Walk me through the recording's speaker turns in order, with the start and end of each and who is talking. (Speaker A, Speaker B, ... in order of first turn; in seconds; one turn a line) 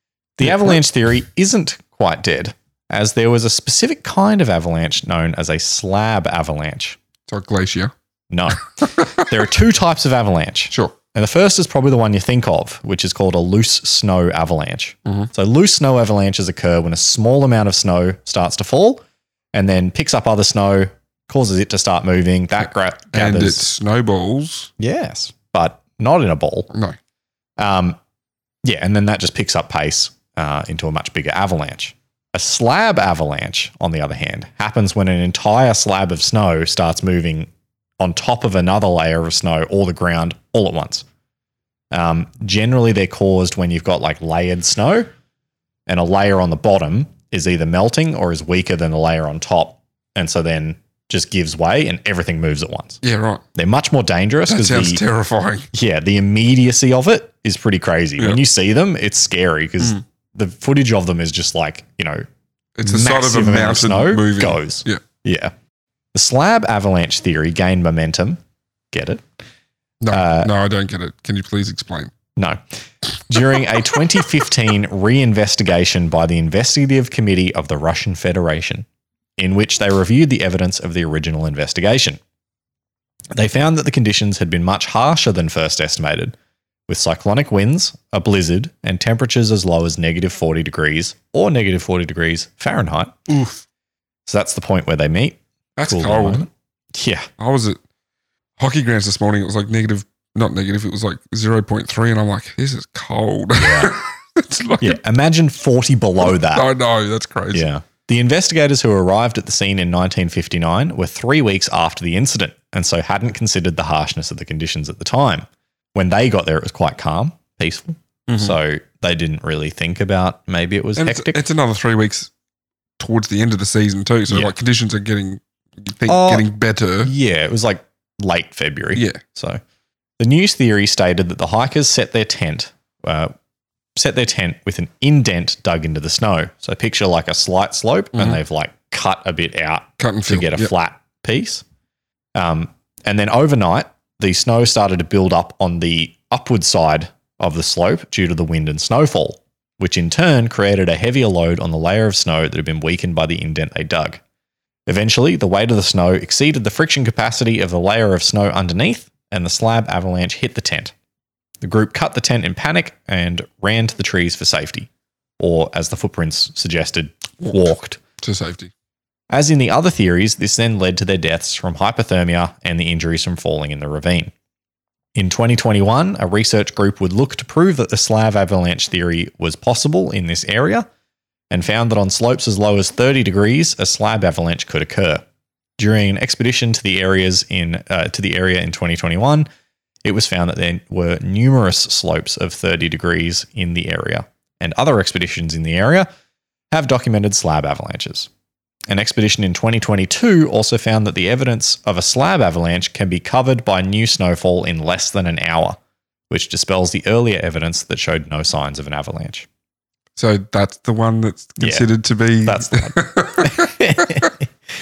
Speaker A: 0.4-7.0
Speaker B: 0.5-0.8
Speaker B: 7.3-7.9
Speaker A: 8.3-19.0
Speaker B: 8.8-9.2
Speaker B: 15.1-15.3
Speaker A: 19.5-23.6
Speaker B: 23.1-24.7
Speaker A: 24.8-26.7
Speaker B: 26.7-27.0
Speaker A: 27.6-28.0
Speaker A: 28.6-37.5
Speaker A: 38.0-41.0
Speaker A: 41.9-45.1
Speaker A: 45.9-53.0
Speaker B: 53.0-53.4
Speaker A: 53.5-55.0
Speaker B: 54.5-55.7
Speaker A: 55.7-62.2
Speaker B: 62.8-65.0
Speaker A: 62.8-65.5
Speaker A: 66.1-68.4
Speaker A: 68.9-69.2
Speaker B: 70.0-72.1
Speaker A: 70.1-70.5
Speaker A: 73.3-78.8
Speaker A: 79.4-82.2
Speaker A: 83.3-86.3
Speaker A: 86.9-93.2
Speaker B: 93.3-93.6
Speaker A: 94.3-97.3
Speaker B: 95.8-96.5
Speaker B: 97.4-97.8
Speaker B: 98.6-105.0
Speaker A: 103.6-103.9
Speaker A: 104.8-106.7
Speaker B: 106.2-107.7
Speaker A: 107.5-121.4
Speaker B: 118.3-118.6
Speaker B: 121.0-122.3
Speaker B: 123.0-127.1
Speaker A: 126.1-126.5
Speaker A: 127.0-129.6
Speaker A: 130.2-133.3
Speaker A: 133.9-141.6
Speaker B: 138.1-138.4
Speaker B: 140.0-140.7
Speaker A: 142.3-154.2
Speaker A: 154.9-160.9
Speaker A: 161.6-164.9
Speaker A: 165.4-168.0
Speaker B: 168.2-168.7
Speaker A: 169.3-174.3
Speaker A: 175.2-180.8
Speaker A: 181.5-185.2
Speaker A: 185.8-189.5
Speaker A: 190.0-196.1
Speaker A: 196.7-198.3
Speaker A: 198.9-205.8
Speaker A: 206.3-209.5
Speaker B: 210.2-214.2
Speaker A: 211.6-211.8
Speaker A: 212.4-214.5